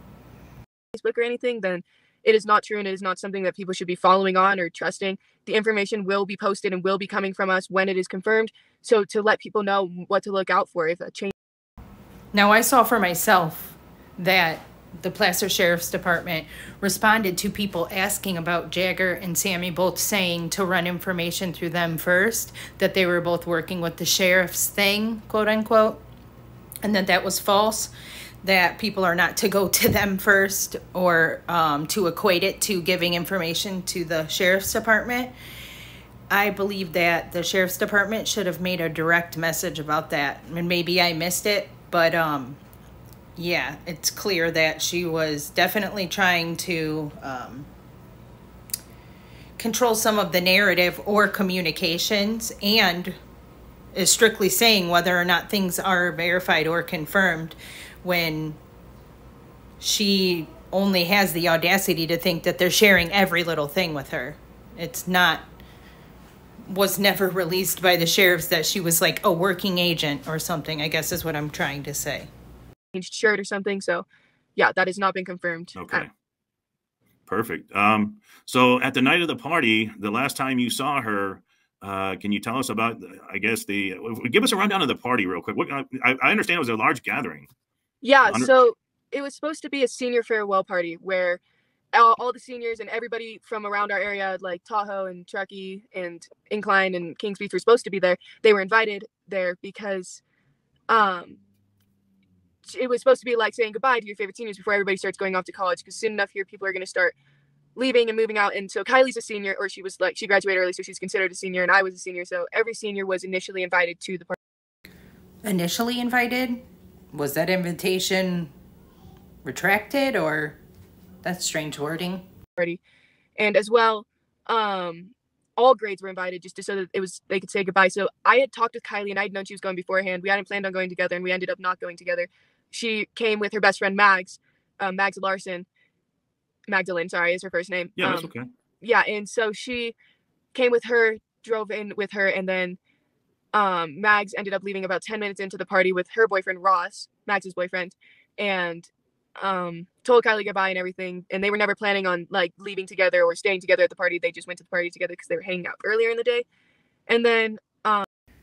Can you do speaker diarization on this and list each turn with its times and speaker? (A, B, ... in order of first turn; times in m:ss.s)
0:00.9-0:11.3 A
0:12.3-0:26.0 B
0:26.8-0:27.9 B
0:28.4-0:35.3 B
0:36.3-0:42.6 B
0:43.4-0:47.7 B
0:49.6-0:53.2 B
0:53.9-0:58.6 B
0:59.8-1:05.4 B
1:06.6-1:12.3 B
1:12.9-1:14.0 A
1:14.6-1:16.0 A
1:15.7-1:16.1 C
1:17.3-1:27.5 C
1:28.0-1:31.4 A
1:28.2-1:28.5 C
1:31.9-1:40.2 A
1:40.9-1:41.4 A
1:42.6-1:47.1 A
1:47.8-1:54.3 A
1:55.4-1:58.5 B
1:59.4-2:00.6 B
2:01.2-2:02.2 B
2:03.4-2:15.6 A
2:16.7-2:18.3 A
2:18.0-2:18.5 C
2:18.8-2:19.9 A
2:20.5-2:22.8 A
2:23.5-2:36.4 A
2:37.1-2:38.0 A